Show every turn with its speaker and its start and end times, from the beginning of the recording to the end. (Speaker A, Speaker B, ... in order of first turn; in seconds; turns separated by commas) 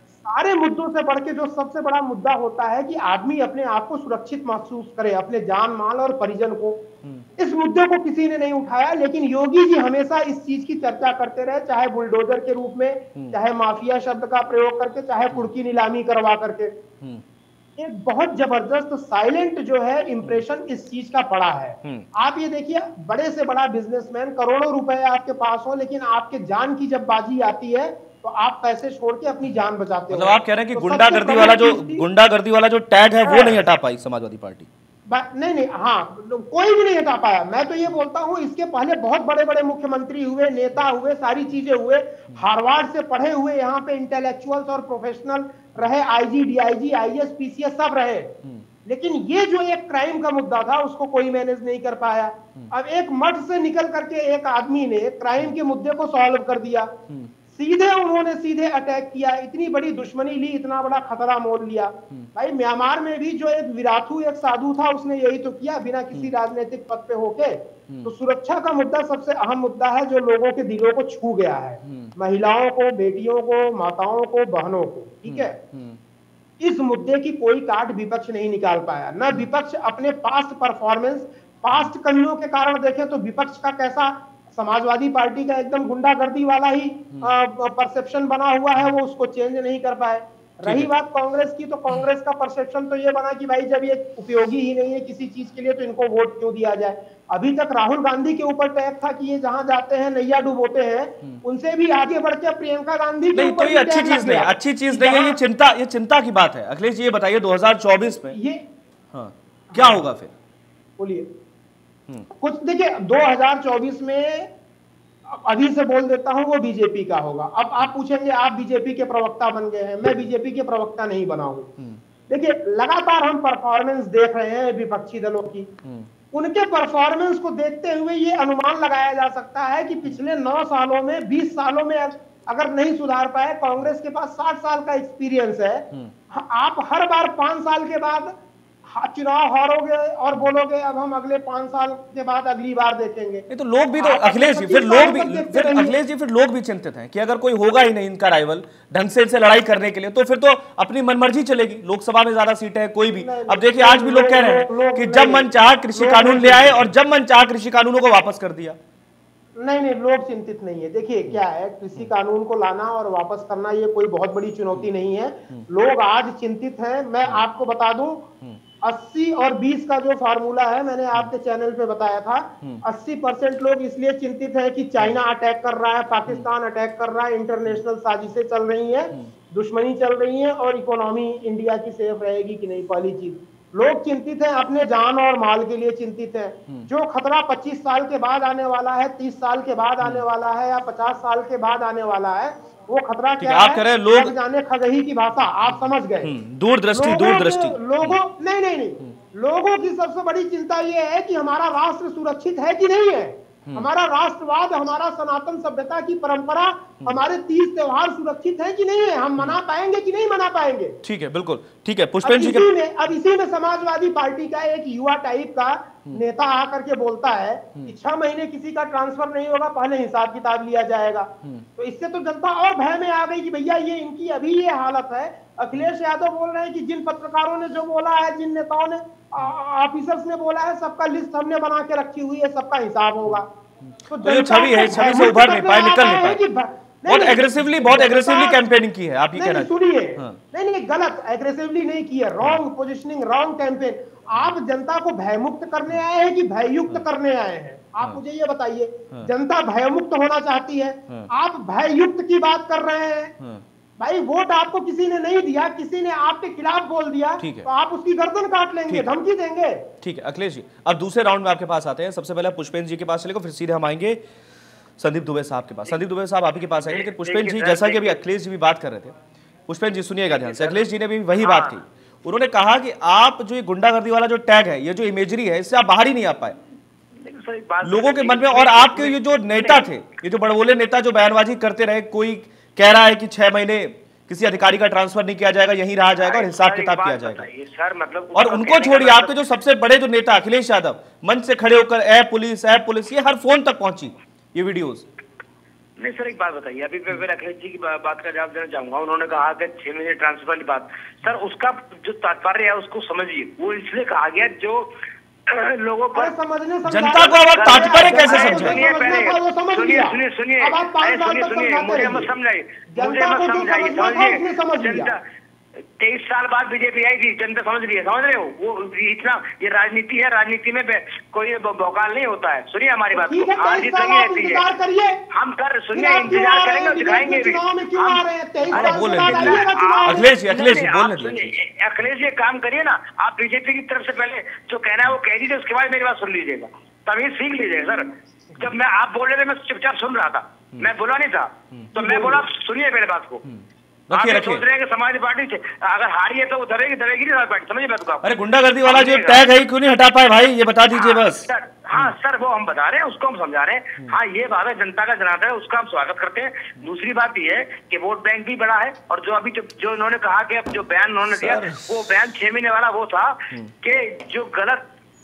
Speaker A: 0.2-6.8, Speaker A: 7.4-16.7, Speaker A: 17.8-32.0, Speaker B: 30.1-34.7, Speaker A: 33.2-33.6, Speaker A: 35.1-48.3, Speaker A: 48.9-56.9, Speaker A: 57.5-75.6, Speaker B: 71.8-72.1, Speaker B: 75.3-76.0, Speaker A: 76.6-105.4, Speaker B: 90.6-90.9, Speaker B: 103.3-108.4, Speaker A: 108.2-108.6, Speaker B: 109.1-110.3, Speaker A: 109.7-110.0, Speaker A: 111.0-111.3, Speaker A: 112.3-114.5, Speaker A: 115.3-121.7, Speaker A: 122.3-125.7, Speaker B: 125.8-126.1, Speaker A: 126.3-138.3, Speaker A: 138.9-145.9, Speaker B: 143.5-158.8, Speaker A: 153.2-156.9, Speaker A: 159.6-168.3, Speaker A: 168.8-196.3, Speaker B: 193.4-194.3, Speaker B: 196.2-198.2, Speaker A: 196.9-211.0, Speaker B: 211.0-212.7, Speaker A: 212.2-233.5, Speaker A: 234.1-238.6, Speaker B: 234.2-236.4, Speaker B: 237.1-240.4, Speaker A: 239.3-253.3, Speaker A: 254.0-259.9, Speaker B: 257.4-257.7, Speaker B: 260.0-264.2, Speaker B: 265.0-269.1, Speaker C: 266.9-268.2, Speaker B: 269.7-276.6, Speaker C: 270.4-270.8, Speaker C: 271.4-271.8, Speaker C: 277.2-279.9, Speaker B: 277.8-287.5, Speaker C: 286.2-289.4, Speaker B: 288.4-295.1, Speaker C: 296.0-304.9, Speaker C: 305.5-306.3, Speaker A: 306.1-312.3, Speaker B: 306.9-308.9, Speaker C: 307.2-315.2, Speaker A: 312.9-315.1, Speaker C: 316.0-324.7, Speaker A: 323.1-325.2, Speaker C: 325.3-343.4, Speaker A: 325.9-330.3, Speaker B: 328.7-331.6, Speaker B: 343.5-344.6, Speaker C: 344.1-348.4, Speaker B: 348.2-352.1, Speaker C: 348.9-349.4, Speaker C: 350.9-364.8, Speaker B: 361.4-361.9